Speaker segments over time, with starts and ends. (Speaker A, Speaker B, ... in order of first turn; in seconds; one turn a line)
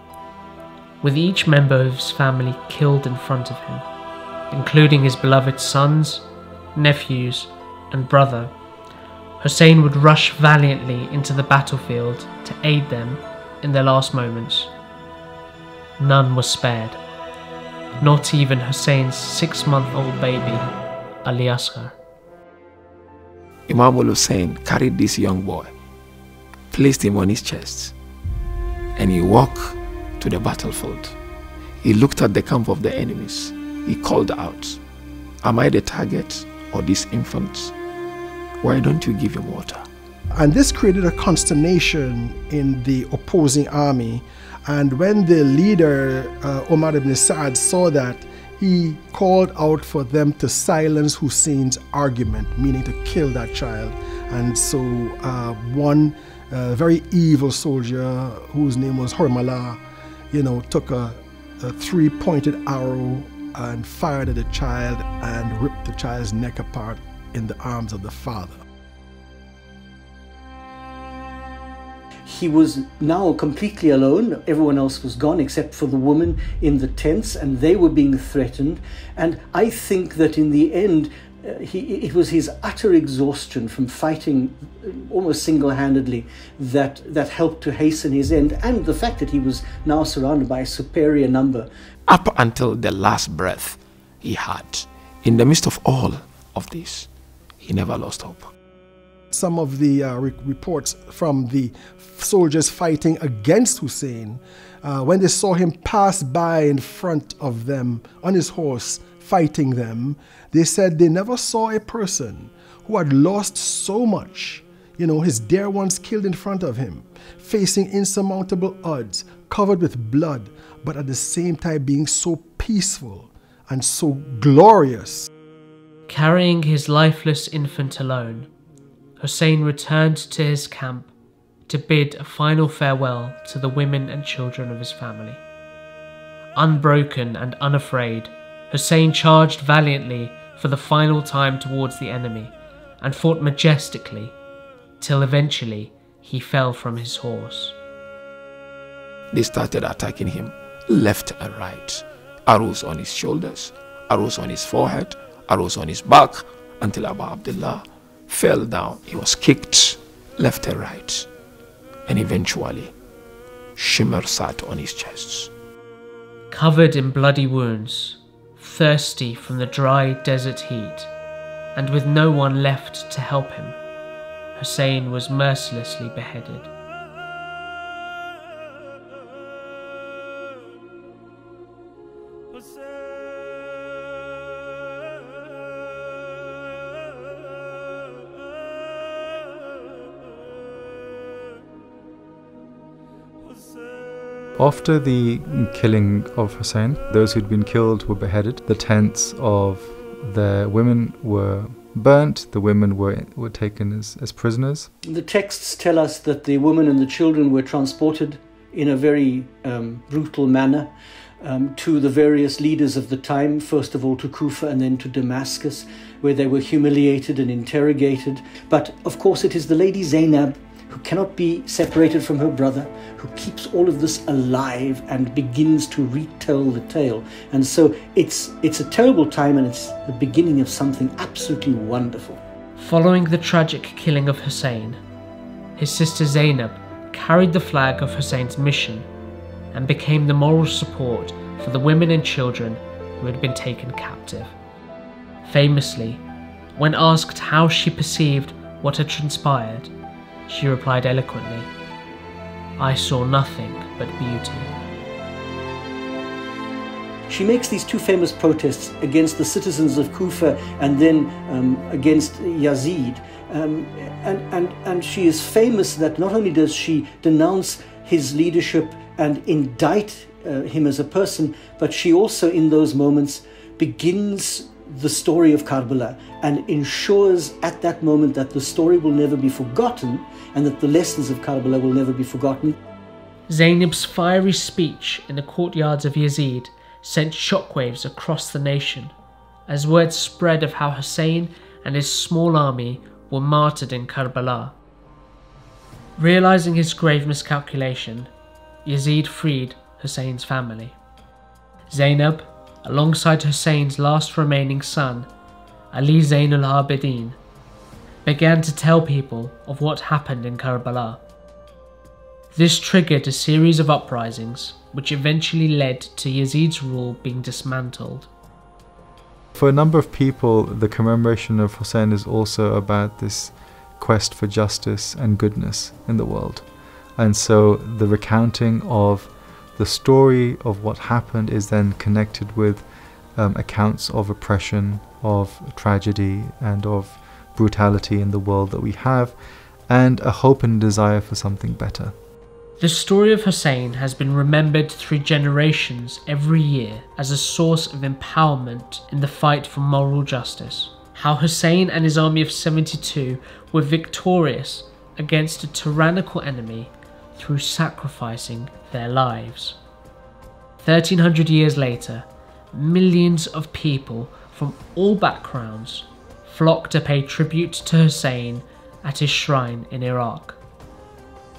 Speaker A: 1.0-3.9
Speaker A: 4.5-8.5
Speaker A: 9.4-14.7
Speaker A: 16.0-17.0
Speaker A: 18.0-20.7
Speaker A: 21.2-22.0
Speaker B: 23.7-25.7
Speaker B: 26.7-27.9
Speaker B: 29.0-31.2
Speaker B: 31.8-34.8
Speaker B: 35.4-37.7
Speaker B: 38.6-39.8
Speaker C: 40.3-59.8
Speaker C: 60.3-68.6
Speaker D: 72.3-91.7
Speaker B: 92.1-97.1
Speaker B: 97.6-98.5
Speaker C: 99.3-125.3
Speaker A: 126.1-128.5
Speaker A: 129.2-131.1
Speaker A: 131.7-135.4
Speaker A: 136.6-144.3
Speaker A: 145.0-147.8
Speaker B: 149.3-161.3
Speaker B: 162.1-162.9
Speaker B: 163.8-165.5
Speaker A: 166.5-171.1
Speaker A: 171.8-173.8
Speaker A: 174.6-176.7
Speaker E: 194.6-204.9
Speaker D: 205.0-232.4
Speaker A: 232.8-235.0
Speaker A: 235.8-239.1
Speaker A: 239.7-244.6
Speaker A: 245.4-246.2
Speaker A: 246.8-249.9
Speaker A: 250.5-251.7
Speaker A: 252.8-254.7
Speaker D: 257.3-282.8
Speaker A: 283.5-289.1
Speaker A: 289.7-294.8
Speaker A: 296.2-298.3
Speaker A: 298.9-301.0
Speaker A: 301.9-305.3
Speaker A: 305.9-307.4
Speaker A: 308.2-311.2
Speaker A: 312.5-318.3
Speaker E: 319.6-339.4
Speaker E: 339.9-342.2
Speaker A: 342.8-359.8
Speaker A: 360.8-370.6